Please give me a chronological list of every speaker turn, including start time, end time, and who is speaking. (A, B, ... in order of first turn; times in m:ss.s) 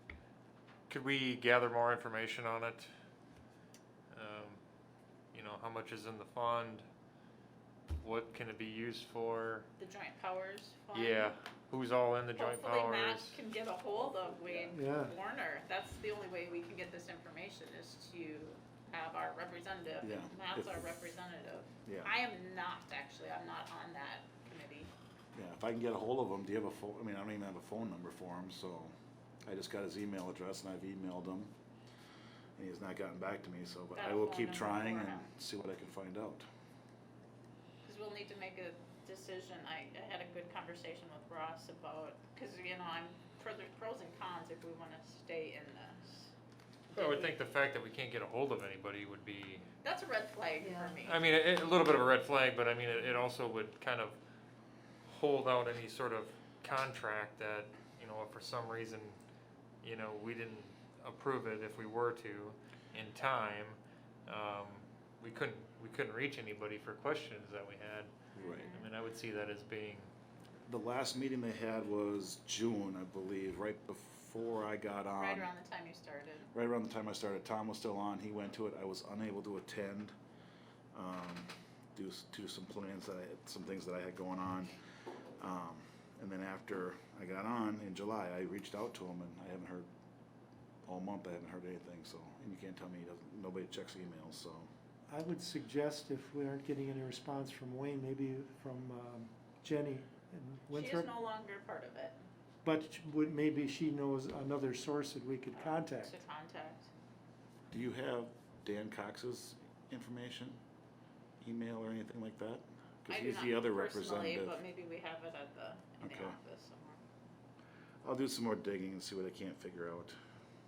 0:00.9-0:02.9 A
0:04.1-0:04.6 A
0:05.3-0:06.8 A
0:08.0-0:09.7 A
0:09.8-0:11.3 B
0:10.9-0:13.4 A
0:12.4-0:24.9 B
0:14.7-0:15.1 C
0:20.0-0:20.9 D
0:21.8-0:22.1 D
0:25.3-0:28.9 D
0:29.4-0:31.5 D
0:32.6-0:36.5 D
0:33.9-0:35.3 B
0:37.8-0:46.3 B
0:46.9-0:49.6 A
0:46.9-0:47.4 B
0:49.8-0:51.2 B
0:51.0-0:54.2 A
0:55.0-0:59.2 A
0:59.8-1:08.1 A
1:08.4-1:08.7 D
1:08.4-1:08.9 B
1:08.6-1:10.1 A
1:10.7-1:15.5 D
1:15.2-1:16.5 B
1:16.5-1:20.1 D
1:20.9-1:24.7 D
1:25.4-1:29.9 D
1:30.8-1:34.7 D
1:35.1-1:41.1 C
1:40.7-1:42.2 B
1:42.6-1:46.2 C
1:45.5-1:46.9 B
1:47.7-1:50.6 D
1:51.4-1:54.6 D
1:53.1-1:57.0 B
1:56.0-1:56.4 D
1:58.0-2:00.2 D